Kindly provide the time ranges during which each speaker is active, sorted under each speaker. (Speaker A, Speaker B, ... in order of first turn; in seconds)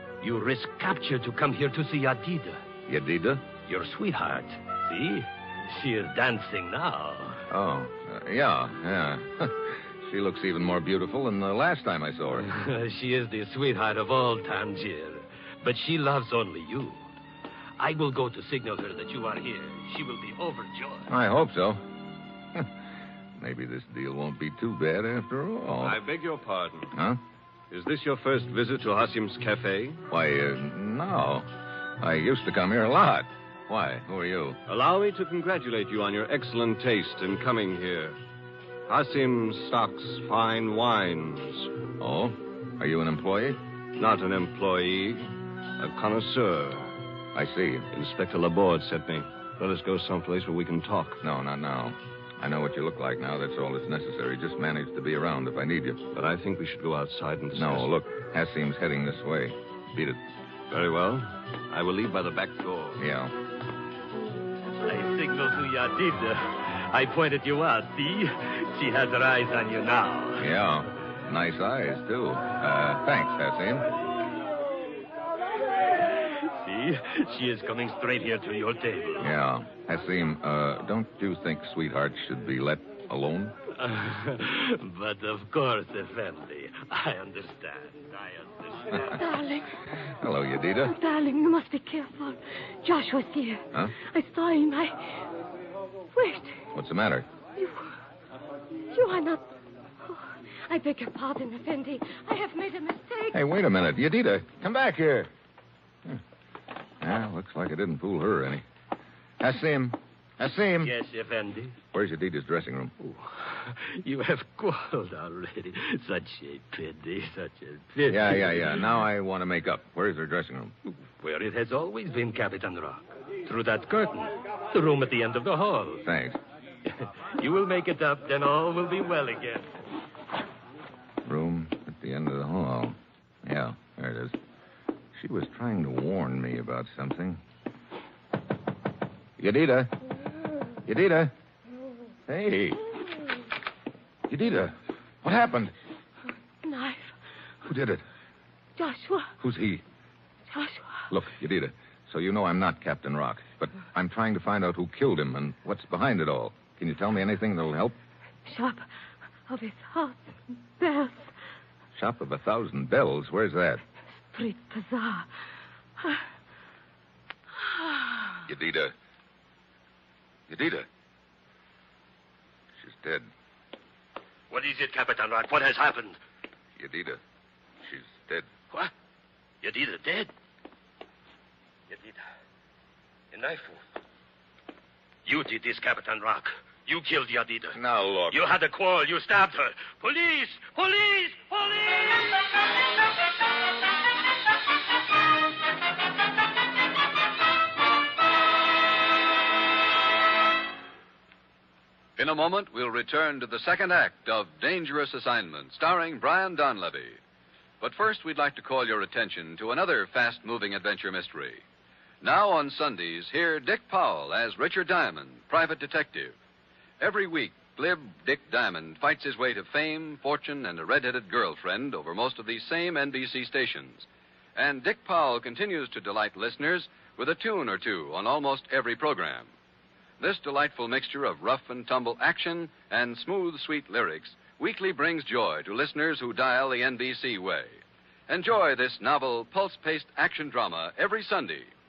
Speaker A: 0.2-2.6, 3.6-7.5, 12.3-17.1, 17.8-21.1, 64.8-70.5, 76.1-79.3, 83.7-89.2, 110.8-111.8, 113.0-118.8, 121.2-126.0, 126.9-129.7, 174.5-176.2, 179.6-180.3, 181.9-182.2, 183.3-183.8, 185.2-187.8, 188.3-192.3
Speaker B: 2.9-3.5, 7.5-12.5, 21.1-21.8, 23.4-26.0, 26.9-27.2, 30.1-34.6, 42.0-43.6, 47.4-47.9, 51.2-56.0, 57.5-60.2, 63.0-63.3, 70.4-73.9, 79.2-83.5, 90.2-91.0, 96.7-97.2, 103.3-105.3, 107.0-108.6, 109.4-110.9, 111.9-112.9, 118.1-120.7, 126.0-126.4, 131.2-134.4, 135.1-137.4, 139.4-139.9, 140.9-141.3, 142.3-142.8, 144.3-145.7, 147.7-148.0, 149.4-149.8, 151.1-157.9, 162.0-163.8, 168.5-168.9, 170.5-170.9, 172.8-173.3, 176.8-177.2, 177.8-178.5, 187.7-188.4
Speaker C: 25.8-26.9, 27.7-30.0, 34.7-38.2, 38.9-41.7, 44.0-46.9, 47.9-51.2, 56.1-57.9, 60.7-63.0
Speaker D: 89.1-89.7, 90.8-95.2, 96.1-96.6, 97.6-97.9, 98.9-99.5, 100.0-103.4, 146.6-147.1, 148.8-149.3, 150.5-151.1, 158.5-158.8, 159.5-161.3, 164.3-165.3, 167.7-168.4
Speaker E: 202.2-207.2, 207.8-211.6, 212.2-216.3, 217.0-229.5, 230.2-241.7